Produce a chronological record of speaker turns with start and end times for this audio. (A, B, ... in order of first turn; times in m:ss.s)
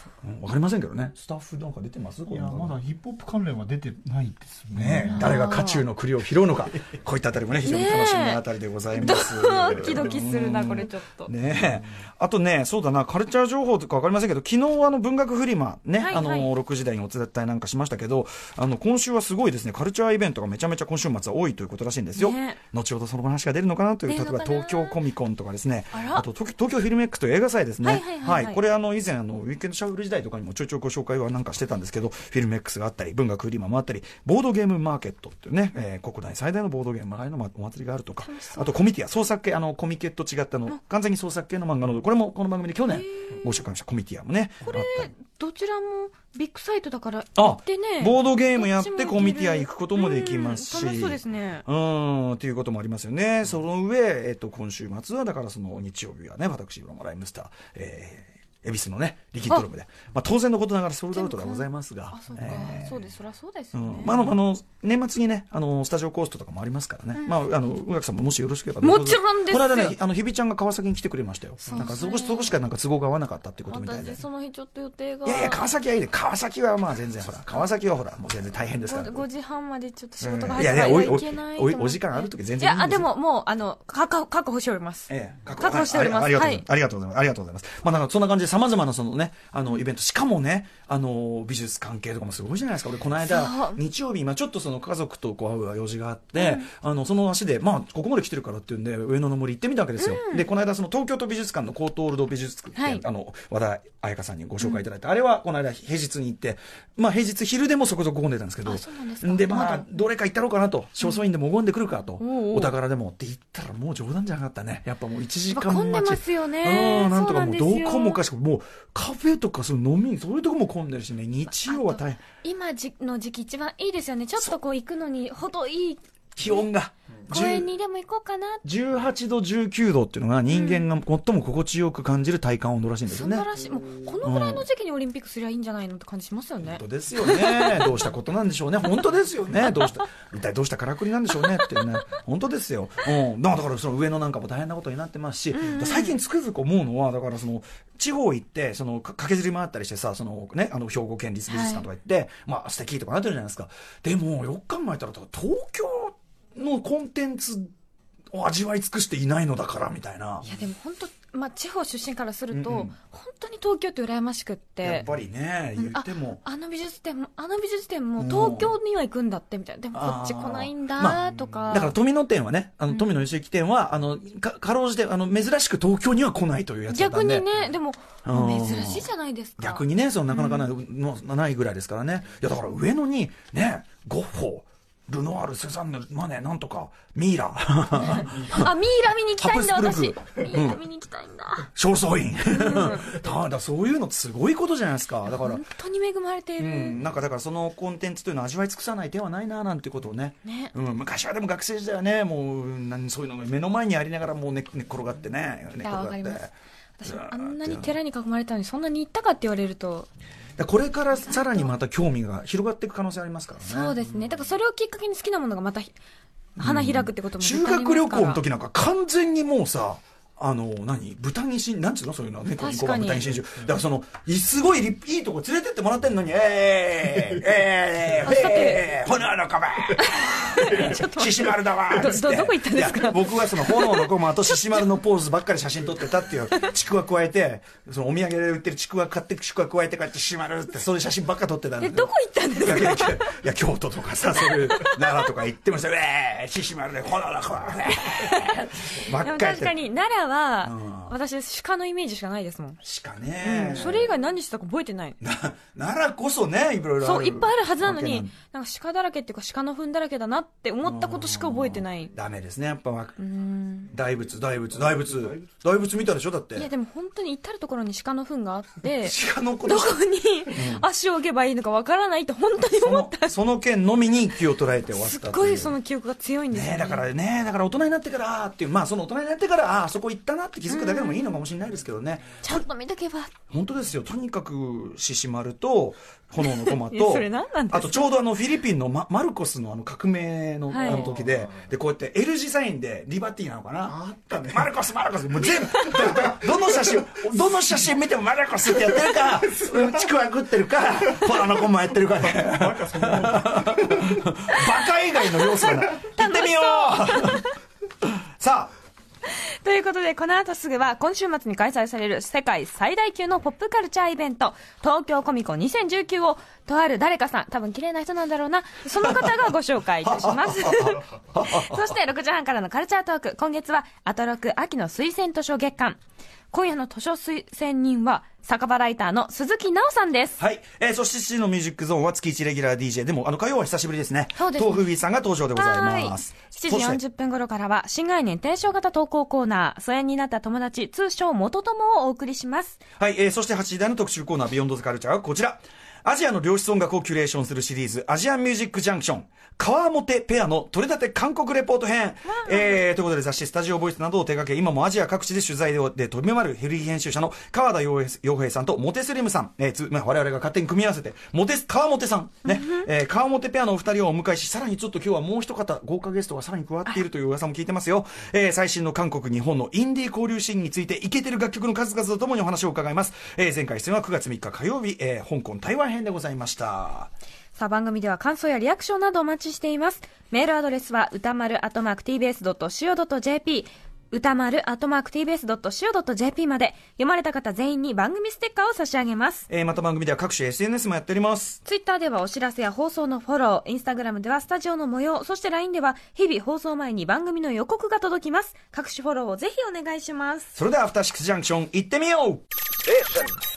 0:00.2-0:02.9 A
0:02.8-0:04.7 B
0:04.7-0:45.1 A
0:05.0-0:05.8 C
0:07.6-0:11.3 C
0:16.0-0:16.5 C
0:22.2-0:22.6 C
0:24.1-0:25.0 C
0:25.9-0:26.2 C
0:27.8-0:28.6 C
0:38.2-0:38.7 C
0:42.9-0:43.6 C
0:44.6-0:51.6 C
0:47.4-1:03.1 A
1:01.1-1:04.3 C
1:03.7-1:14.2 A
1:08.8-1:10.0 C
1:11.7-1:12.6 C
1:13.7-1:15.7 C
1:15.2-1:19.2 A
1:18.8-1:26.6 C
1:20.2-1:23.1 A
1:25.1-2:02.2 A
1:33.2-1:33.8 C
1:36.4-1:36.7 C
1:40.0-1:40.5 C
1:42.8-1:43.0 C
1:48.6-1:49.9 C
1:52.2-1:52.7 C
1:55.5-1:58.2 C
2:01.5-2:06.7 C
2:06.4-2:07.7 A
2:07.3-2:08.6 C
2:08.6-2:13.5 A
2:10.5-2:10.9 C
2:13.1-2:18.0 C
2:14.2-2:14.6 A
2:16.6-2:37.7 A
2:19.6-2:19.9 C
2:21.3-2:22.0 C
2:25.5-2:26.2 C
2:31.5-2:31.9 C
2:38.3-2:40.5 A
2:40.4-2:45.1 C
2:42.5-2:43.0 A
2:44.8-2:46.4 A
2:45.8-2:52.0 C
2:48.2-2:48.8 A
2:49.9-2:57.5 A
2:52.9-2:53.2 C
2:56.9-3:00.7 C
2:58.2-2:59.1 A
2:59.6-3:08.7 A
3:08.0-3:11.7 C
3:09.4-3:10.8 A
3:11.6-3:15.6 A
3:12.5-3:13.0 C
3:15.3-3:17.0 C
3:16.6-3:26.5 A
3:20.4-3:20.7 C
3:25.8-3:26.4 C
3:27.0-3:30.1 C
3:27.0-3:27.9 A
3:30.6-3:33.9 A
3:31.2-3:31.7 C
3:33.6-3:36.0 C
3:36.6-4:09.8 A
3:36.6-3:38.4 C
3:42.6-3:43.2 C
3:48.2-3:48.9 C
3:49.9-3:54.9 C
4:01.8-4:03.3 C
4:04.4-4:05.3 C
4:08.0-4:12.8 C
4:10.6-4:11.1 A
4:12.8-4:14.1 A
4:13.4-4:15.2 C
4:15.2-4:18.3 A
4:17.0-4:22.1 C
4:20.8-4:23.2 A
4:23.2-4:23.9 C
4:23.9-4:26.7 A
4:26.6-4:33.4 C
4:29.0-4:30.8 A
4:32.7-4:35.8 A
4:34.9-4:37.0 C
4:36.5-4:42.6 A
4:40.7-4:41.4 C
4:42.4-4:43.3 C
4:43.5-5:07.5 A
4:46.4-4:48.1 C
4:50.7-4:51.1 C
4:55.4-4:56.3 C
5:02.8-5:03.4 B
5:04.5-5:07.6 C
5:08.4-5:08.7 A
5:09.3-5:26.0 C
5:20.0-5:21.8 A
5:26.5-5:30.4 C
5:30.4-5:37.0 A
5:34.4-5:34.8 C
5:35.5-5:42.8 C
5:43.0-6:17.1 A
5:52.3-5:52.8 C
6:02.5-6:02.9 C
6:17.6-6:29.5 C
6:29.5-6:31.6 A
6:31.6-6:40.5 C
6:40.6-6:42.4 A